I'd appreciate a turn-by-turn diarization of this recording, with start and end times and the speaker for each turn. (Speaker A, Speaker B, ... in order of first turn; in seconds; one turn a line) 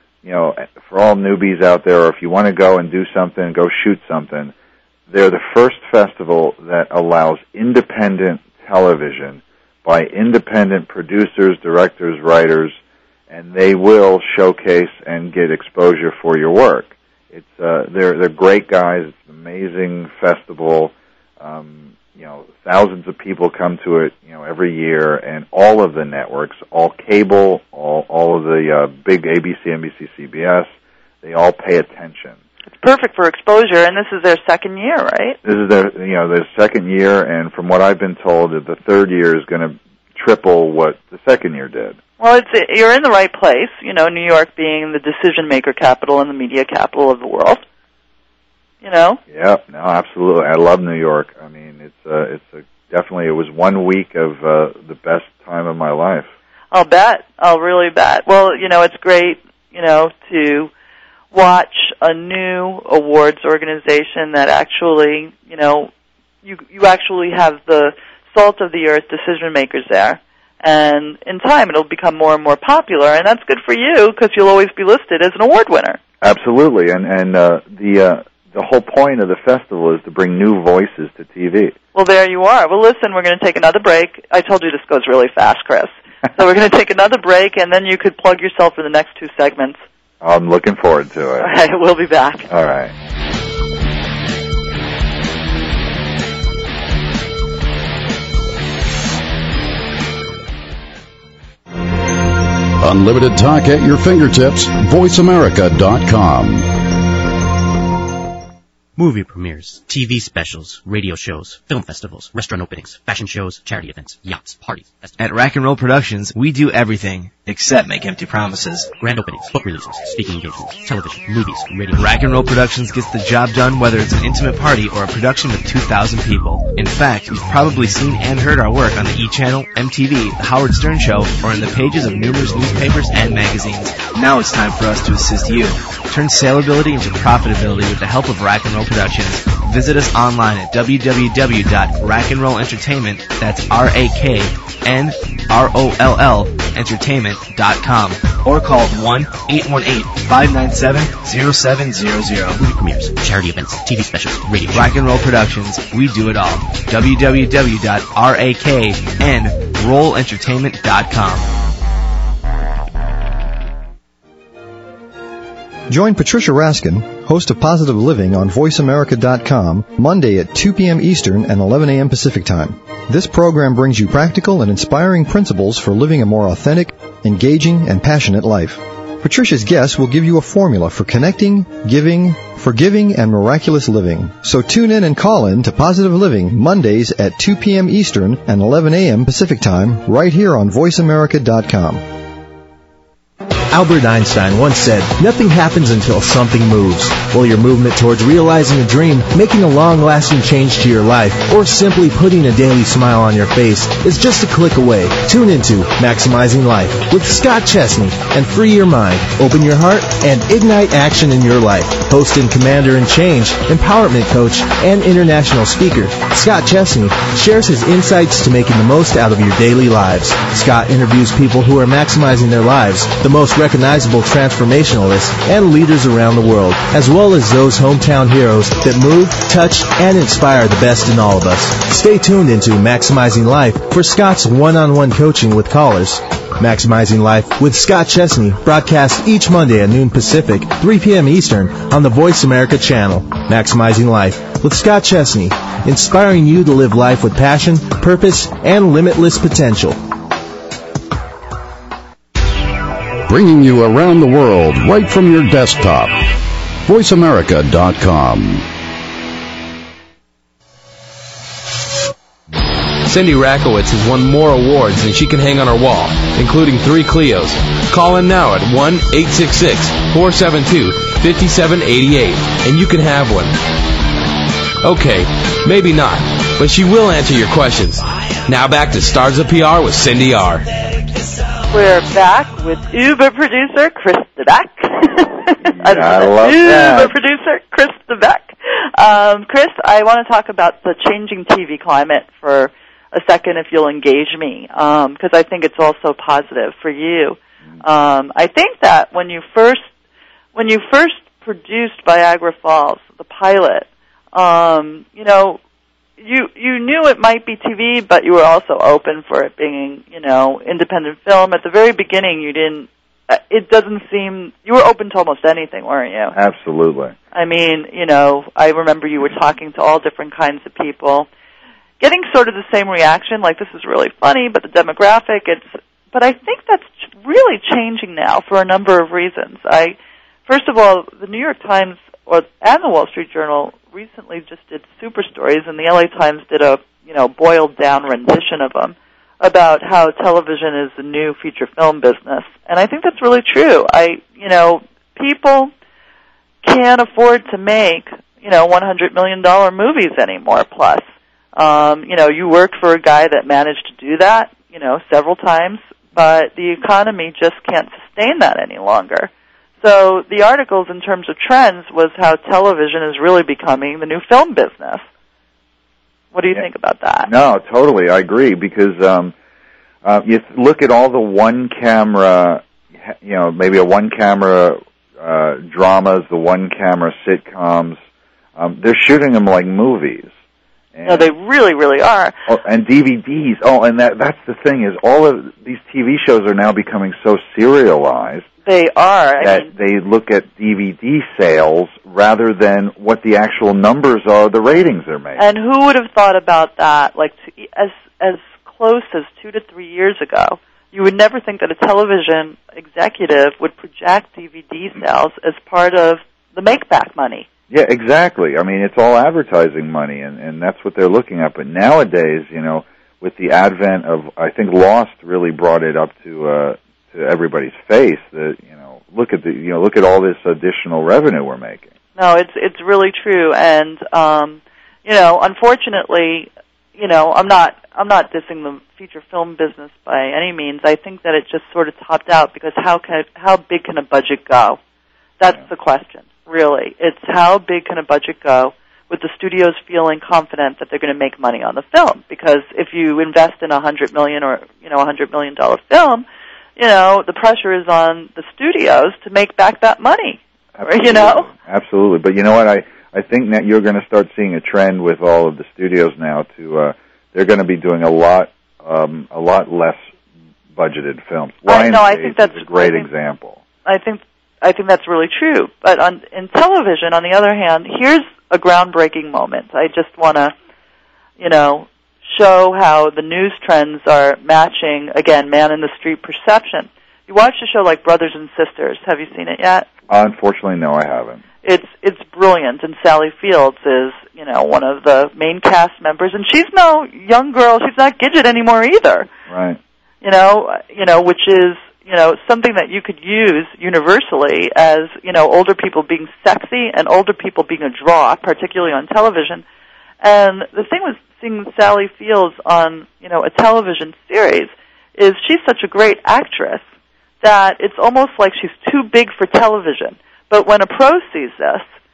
Speaker A: 0.2-4.5
Speaker A: 5.1-12.8
Speaker A: 13.3-30.7
Speaker A: 31.2-32.4
Speaker B: 32.8-35.4
Speaker A: 35.4-42.0
Speaker B: 42.2-47.6
Speaker B: 48.8-49.2
Speaker A: 49.3-56.3
Speaker B: 56.7-60.7
Speaker B: 61.3-65.9
Speaker B: 66.4-76.0
Speaker A: 76.2-81.8
Speaker B: 81.9-89.8
Speaker A: 90.2-91.5
Speaker B: 91.4-92.5
Speaker A: 92.5-92.9
Speaker C: 102.8-106.7
Speaker D: 109.0-115.2
Speaker E: 115.2-118.9
Speaker D: 119.0-122.2
Speaker E: 121.9-152.6
Speaker D: 152.5-155.0
Speaker E: 154.7-161.5
Speaker F: 165.9-192.1
Speaker G: 193.7-250.0
Speaker C: 253.2-256.2
Speaker C: 256.9-258.6
Speaker H: 263.0-273.6
Speaker H: 274.8-280.7
Speaker B: 281.7-299.8
Speaker A: 285.6-287.2
Speaker B: 300.5-305.6
Speaker B: 306.2-316.4
Speaker A: 316.3-317.1
Speaker B: 317.3-321.3
Speaker B: 322.0-345.7
Speaker B: 346.6-351.0
Speaker B: 351.6-359.3
Speaker B: 359.8-365.0
Speaker B: 366.3-367.3
Speaker A: 367.2-369.3
Speaker A: 370.0-378.0
Speaker A: 378.6-380.3
Speaker A: 380.9-381.3
Speaker B: 381.0-382.4
Speaker A: 382.5-388.4
Speaker B: 388.6-389.7
Speaker A: 389.4-395.4
Speaker B: 395.4-407.4
Speaker A: 407.7-421.9
Speaker B: 422.1-434.8
Speaker B: 435.4-446.2
Speaker B: 446.8-451.5
Speaker A: 450.8-460.1
Speaker A: 460.7-463.6
Speaker B: 461.6-463.1
Speaker B: 463.8-470.5
Speaker B: 471.4-479.9
Speaker A: 480.1-481.4
Speaker B: 481.6-489.3
Speaker A: 489.5-489.8
Speaker B: 490.2-499.6
Speaker B: 500.2-506.8
Speaker B: 507.4-511.9